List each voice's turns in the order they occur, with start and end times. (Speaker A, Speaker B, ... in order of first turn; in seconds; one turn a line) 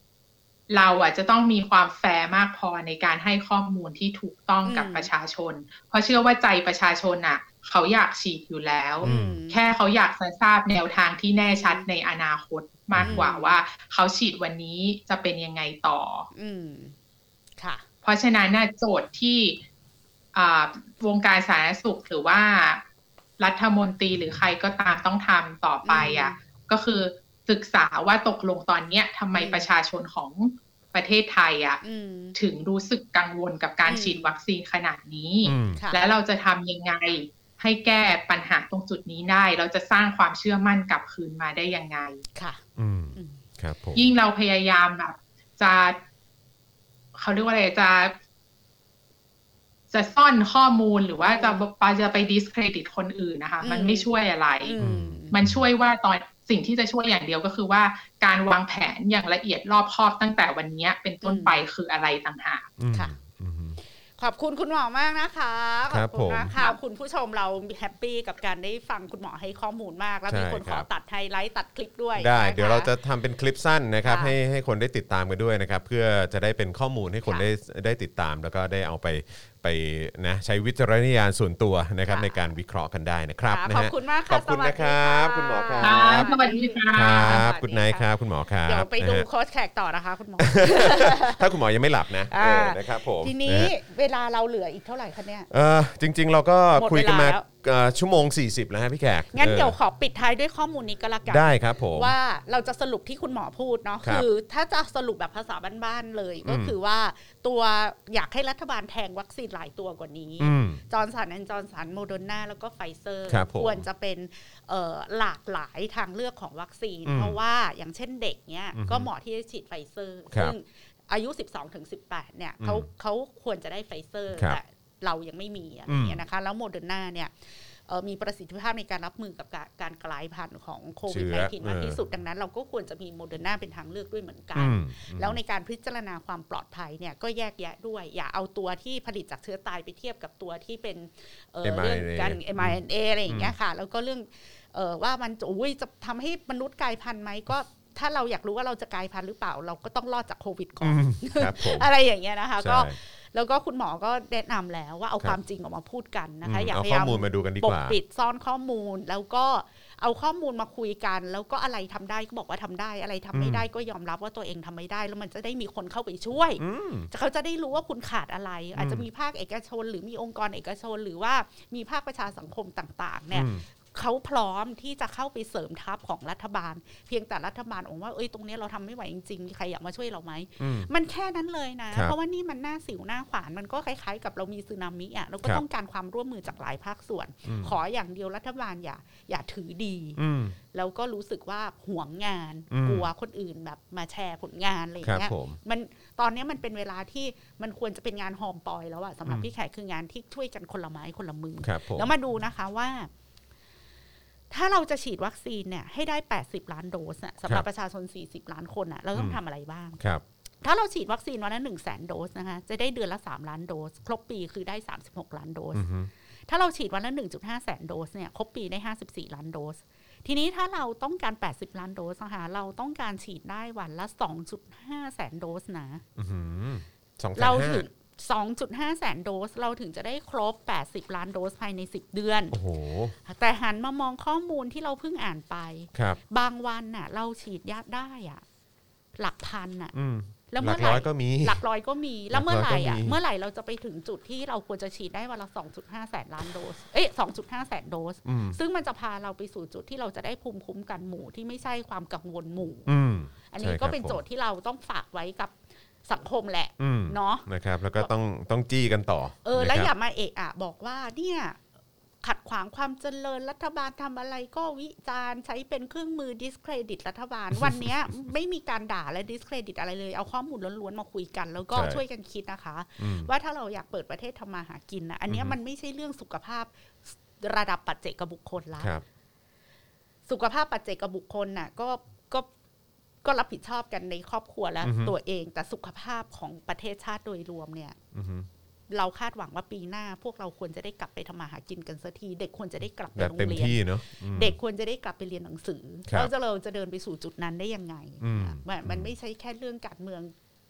Speaker A: 0.7-16.3
Speaker B: 4.6-5.1
Speaker C: 9.0-9.4
Speaker B: 9.0-9.6
Speaker B: 11.5-11.8
Speaker C: 12.9-13.2
Speaker B: 13.0-13.6
Speaker B: 16.3-16.9
Speaker B: 17.6-17.8
Speaker A: 18.0-19.6
Speaker A: 20.3-22.8
Speaker A: 23.4-31.8
Speaker B: 25.8-26.4
Speaker B: 29.4-29.7
Speaker B: 31.8-32.4
Speaker A: 32.4-42.2
Speaker B: 33.8-34.3
Speaker C: 35.4-35.8
Speaker B: 35.7-36.0
Speaker B: 42.3-42.6
Speaker C: 42.8-44.0
Speaker B: 43.1-43.4
Speaker A: 43.9-46.0
Speaker A: 47.1-48.1
Speaker A: 49.9-54.8
Speaker B: 51.3-51.6
Speaker B: 53.6-54.0
Speaker B: 54.6-55.3
Speaker C: 54.8-55.6
Speaker A: 55.3-62.7
Speaker B: 61.2-61.6
Speaker C: 62.8-63.8
Speaker B: 64.2-72.9
Speaker C: 65.9-66.5
Speaker C: 70.3-70.8
Speaker C: 72.2-86.3
Speaker B: 74.0-74.3
Speaker B: 82.0-82.5
Speaker B: 83.5-88.1
Speaker A: 85.8-87.5
Speaker C: 86.9-89.3
Speaker B: 88.6-91.4
Speaker C: 90.4-93.7
Speaker B: 92.3-95.5
Speaker C: 95.5-99.7
Speaker B: 96.8-97.5
Speaker B: 99.3-190.2
Speaker C: 101.3-102.1
Speaker C: 106.4-106.7
Speaker C: 110.4-110.8
Speaker C: 113.3-113.8
Speaker C: 117.0-117.4
Speaker C: 118.7-119.1
Speaker C: 122.6-122.9
Speaker C: 124.3-124.6
Speaker C: 125.9-126.2
Speaker C: 131.1-132.0
Speaker C: 134.6-135.4
Speaker C: 141.6-143.5
Speaker C: 150.8-151.9
Speaker C: 152.6-153.0
Speaker C: 156.4-158.0
Speaker C: 163.3-163.6
Speaker C: 166.6-167.1
Speaker C: 168.8-169.1
Speaker C: 173.3-173.6
Speaker C: 180.6-180.9
Speaker C: 187.4-187.8
Speaker C: 190.2-190.6
Speaker B: 190.7-203.1
Speaker C: 192.7-193.1
Speaker C: 195.0-195.6
Speaker C: 201.6-202.1
Speaker B: 204.5-210.0
Speaker C: 209.1-209.4
Speaker B: 210.6-215.8
Speaker C: 215.7-216.1
Speaker B: 216.5-226.0
Speaker C: 226.2-227.8
Speaker B: 227.4-232.6
Speaker C: 232.5-233.1
Speaker B: 233.2-238.4
Speaker B: 239.2-239.9
Speaker C: 239.9-241.6
Speaker B: 240.5-252.9
Speaker C: 242.3-243.2
Speaker C: 248.2-248.6
Speaker C: 252.8-254.2
Speaker B: 253.5-255.5
Speaker B: 256.1-258.1
Speaker C: 256.8-259.9
Speaker B: 259.4-261.6
Speaker B: 262.2-278.9
Speaker C: 267.6-267.9
Speaker C: 271.7-272.0
Speaker C: 273.0-273.3
Speaker C: 275.3-275.6
Speaker B: 280.3-282.5
Speaker B: 283.2-287.9
Speaker C: 284.8-285.1
Speaker C: 288.1-288.5
Speaker B: 288.9-300.3
Speaker C: 293.1-294.6
Speaker C: 298.2-299.1